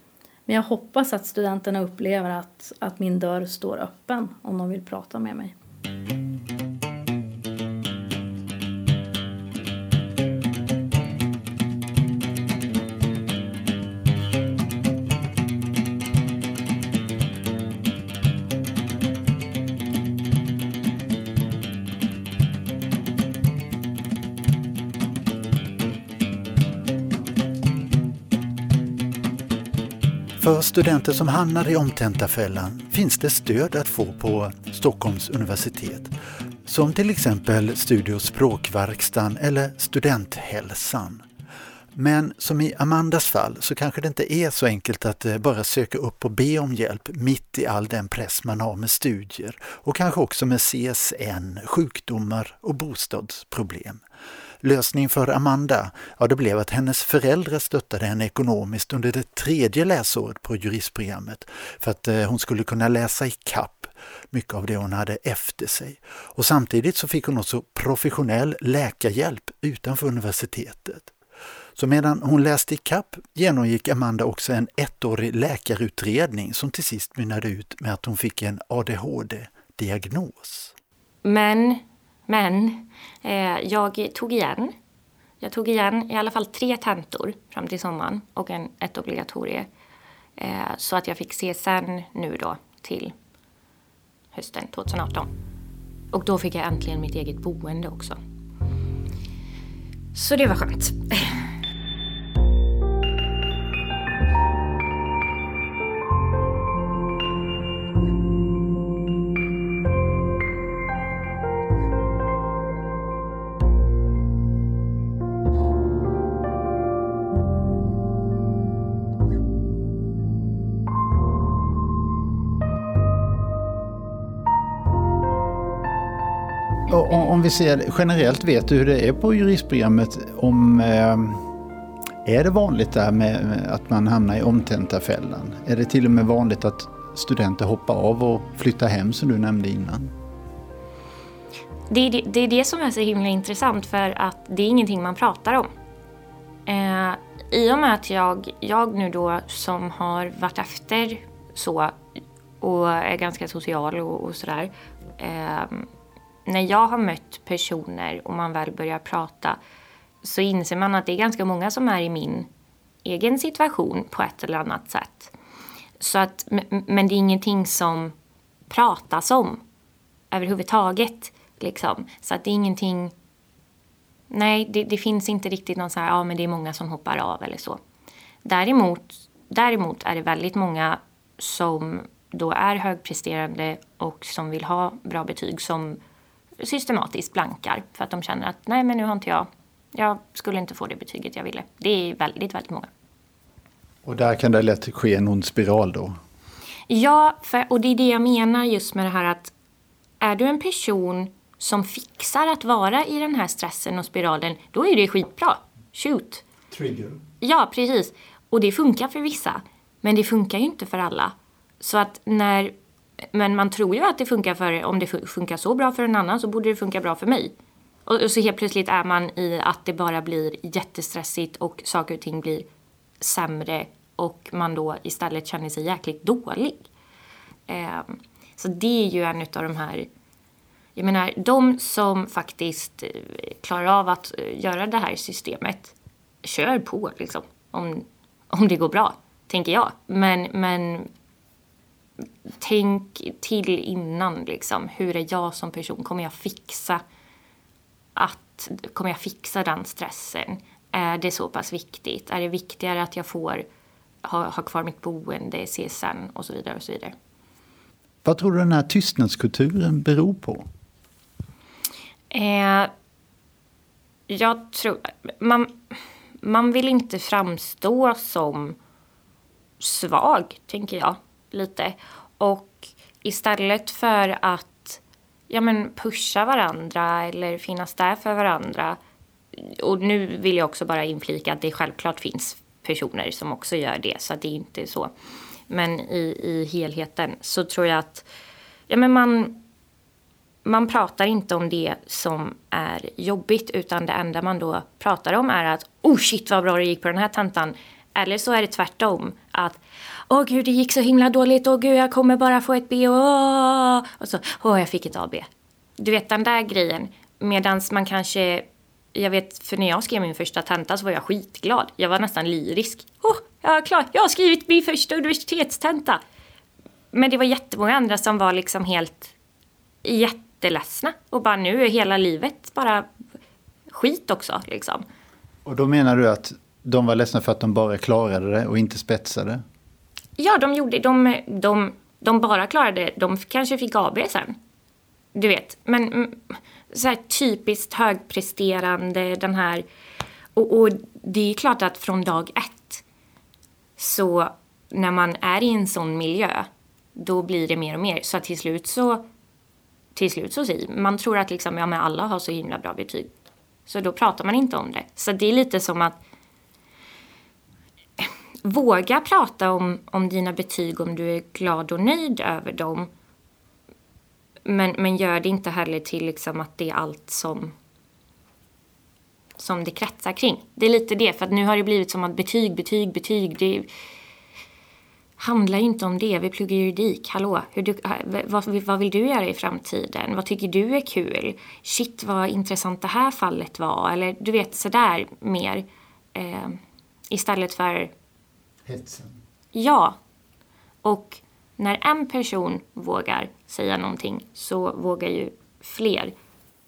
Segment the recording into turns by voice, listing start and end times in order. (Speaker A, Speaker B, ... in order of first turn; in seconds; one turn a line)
Speaker A: 0.5-5.5
Speaker B: 30.4-36.1
Speaker B: 36.6-41.2
Speaker B: 41.9-54.0
Speaker B: 54.6-71.1
Speaker B: 71.8-80.7
Speaker C: 81.2-84.7
Speaker C: 85.4-89.7
Speaker C: 90.4-93.1
Speaker C: 94.3-95.3
Speaker C: 96.1-98.2
Speaker C: 100.1-101.4
Speaker D: 126.9-131.4
Speaker D: 132.2-140.1
Speaker C: 141.9-145.7
Speaker C: 146.7-152.0
Speaker C: 152.6-155.9
Speaker C: 156.5-159.6
Speaker C: 160.2-162.5
Speaker C: 163.0-165.3
Speaker C: 166.0-168.2
Speaker C: 168.7-169.6
Speaker C: 170.3-173.1
Speaker C: 174.3-177.8
Speaker C: 178.4-186.0
Speaker C: 186.6-192.9
Speaker D: 194.1-196.2
Speaker C: 196.9-199.5
Speaker C: 200.2-206.4
Speaker D: 206.7-207.2
Speaker C: 207.4-217.5
Speaker C: 218.1-222.7
Speaker C: 223.2-226.9
Speaker C: 227.7-230.1
Speaker C: 231.0-241.1
Speaker C: 242.5-247.0
Speaker C: 248.2-253.7
Speaker C: 254.2-257.1
Speaker D: 258.2-260.7
Speaker C: 262.3-262.9
Speaker C: 264.3-265.8
Speaker C: 266.4-268.8
Speaker C: 269.8-279.0
Speaker C: 279.5-285.1
Speaker C: 285.7-288.3
Speaker C: 288.9-289.6
Speaker C: 290.6-316.2
Speaker C: 317.1-319.3
Speaker C: 320.0-323.1
Speaker C: 323.9-325.1
Speaker D: 325.6-329.6
Speaker C: 330.4-334.6
Speaker C: 335.3-339.9
Speaker C: 340.6-343.0
Speaker C: 344.0-349.2
Speaker C: 350.1-353.3
Speaker C: 353.9-356.2
Speaker C: 358.2-363.1
Speaker C: 364.6-367.8
Speaker C: 369.6-373.9
Speaker C: 375.4-386.8
Speaker C: 387.3-388.1
Speaker D: 388.9-389.4
Speaker C: 389.7-390.2
Speaker C: 391.0-396.3